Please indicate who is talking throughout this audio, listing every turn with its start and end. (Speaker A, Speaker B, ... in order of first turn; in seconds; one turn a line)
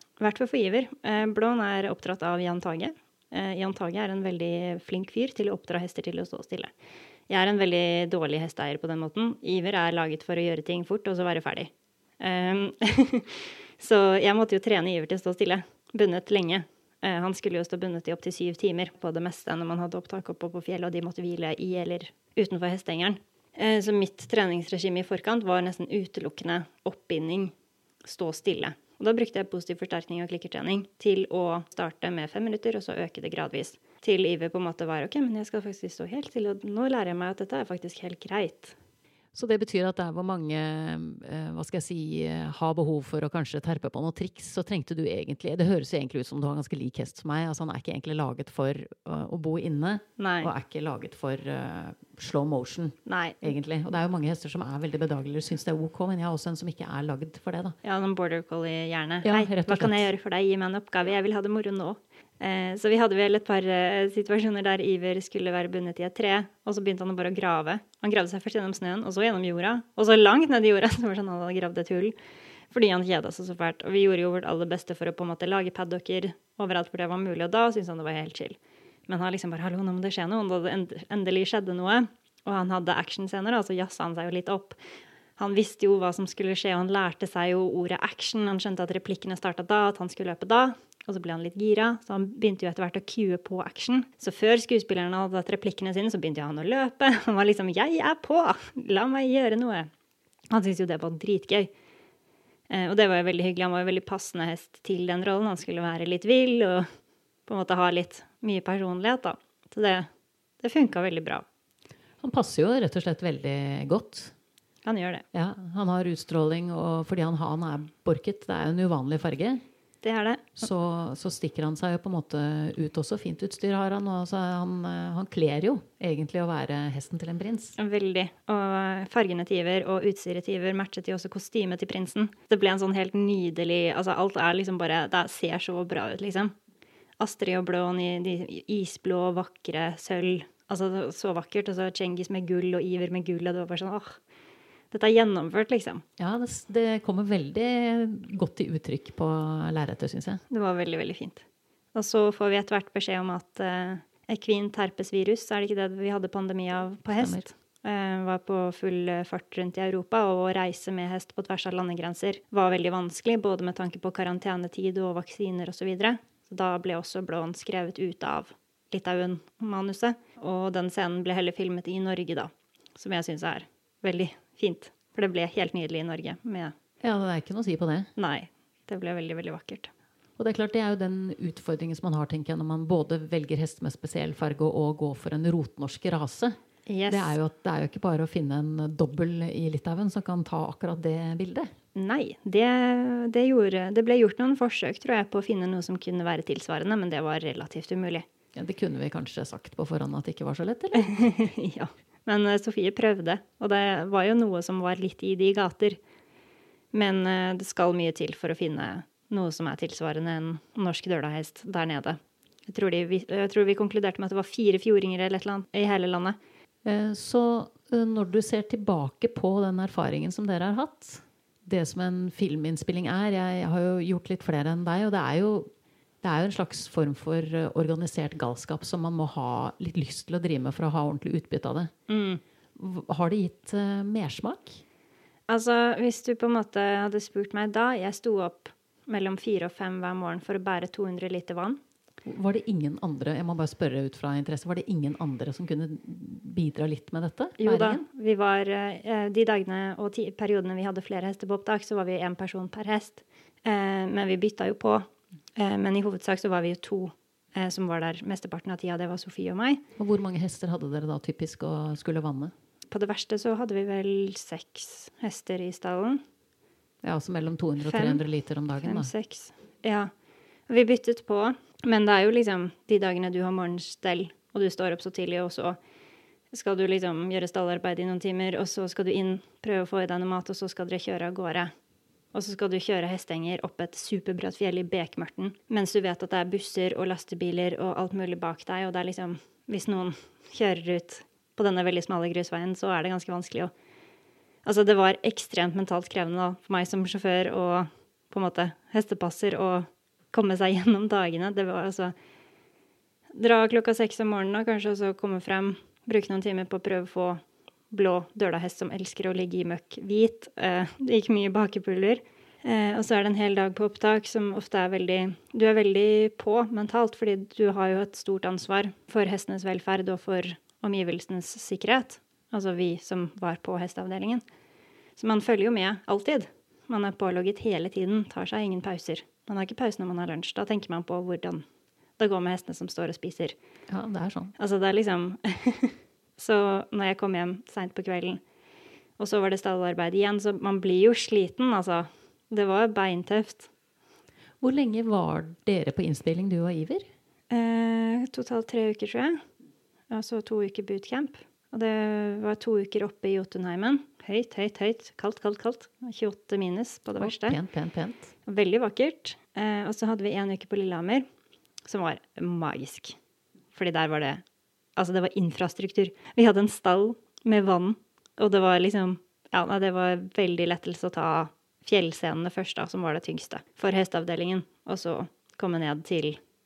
Speaker A: 0.2-6.7
Speaker A: 7.3-27.5
Speaker A: 28.1-38.8
Speaker B: 39.3-57.8
Speaker A: 50.2-50.5
Speaker A: 53.1-53.5
Speaker A: 57.8-72.2
Speaker B: 59.2-60.1
Speaker A: 72.7-78.6
Speaker A: 79.1-84.8
Speaker A: 85.4-99.9
Speaker A: 100.5-101.7
Speaker A: 102.7-106.9
Speaker A: 107.5-110.1
Speaker A: 110.6-111.5
Speaker B: 112.2-114.3
Speaker A: 114.8-115.2
Speaker B: 115.3-119.6
Speaker A: 120.0-120.6
Speaker B: 120.6-127.8
Speaker A: 127.8-136.5
Speaker A: 137.2-144.2
Speaker A: 144.9-146.0
Speaker B: 146.2-150.4
Speaker A: 150.5-151.4
Speaker A: 151.9-176.7
Speaker B: 157.2-157.4
Speaker B: 177.0-178.1
Speaker A: 178.2-179.9
Speaker B: 180.4-186.6
Speaker A: 186.9-187.4
Speaker B: 187.1-191.7
Speaker A: 191.9-198.3
Speaker B: 198.5-201.4
Speaker A: 200.9-206.0
Speaker A: 206.9-216.4
Speaker B: 216.8-225.7
Speaker B: 226.2-231.9
Speaker A: 232.1-232.4
Speaker B: 232.8-234.8
Speaker A: 235.5-241.8
Speaker B: 242.2-248.1
Speaker A: 247.6-259.8
Speaker B: 260.0-262.5
Speaker A: 262.9-266.2
Speaker B: 267.0-269.1
Speaker A: 267.8-268.2
Speaker A: 268.8-270.1
Speaker A: 270.7-275.8
Speaker A: 276.5-281.7
Speaker A: 282.3-293.7
Speaker A: 294.6-302.1
Speaker A: 303.4-324.4
Speaker A: 325.2-331.6
Speaker A: 332.2-333.6
Speaker B: 333.9-334.5
Speaker A: 334.6-338.4
Speaker A: 339.2-343.7
Speaker B: 344.6-347.0
Speaker A: 347.5-349.4
Speaker A: 350.1-357.6
Speaker B: 357.2-358.3
Speaker A: 358.5-361.2
Speaker A: 361.9-363.2
Speaker A: 363.7-364.4
Speaker A: 365.0-376.4